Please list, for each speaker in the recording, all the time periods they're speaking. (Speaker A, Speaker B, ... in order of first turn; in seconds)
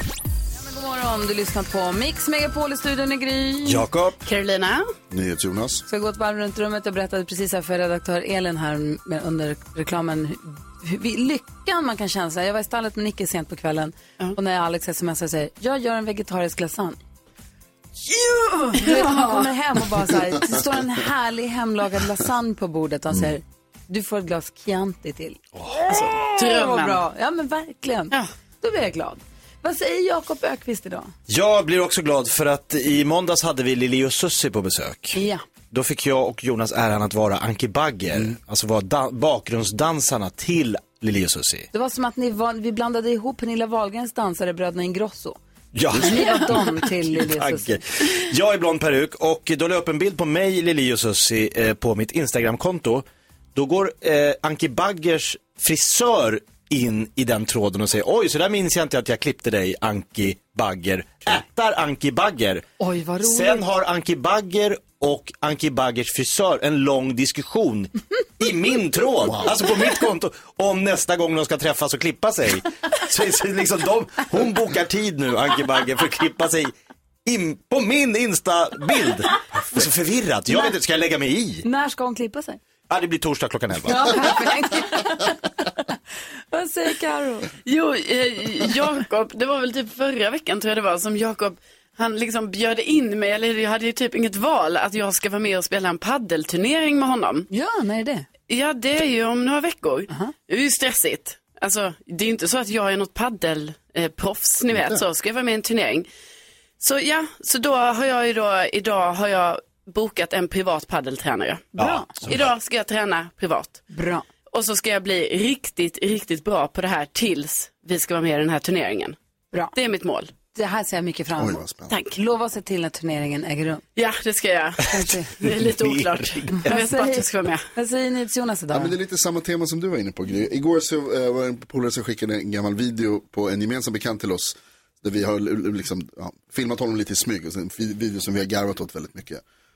Speaker A: 0.6-3.8, 5.9-17.0, 18.7-25.4, 25.9-31.1, 35.1-35.4, 41.7-45.4, 46.0-47.8, 62.8-63.6, 81.6-82.6, 83.9-85.5, 86.5-87.5, 97.5-98.3, 100.1-100.3, 111.8-112.1, 113.9-114.3, 120.5-123.8, 124.9-125.3, 126.5-128.9
Speaker B: 3.6-4.2, 25.6-25.9, 31.3-35.2, 35.7-41.7, 45.7-62.6, 63.2-76.7, 77.2-81.7, 82.9-84.4, 111.8-112.5, 125.5-126.7
Speaker C: 4.2-4.9, 18.0-19.5, 25.9-27.0, 87.7-97.5, 98.5-106.1, 106.8-113.8, 114.5-119.2, 119.7-120.3, 124.0-127.7
Speaker D: 5.1-5.9, 121.4-122.0, 128.7-139.4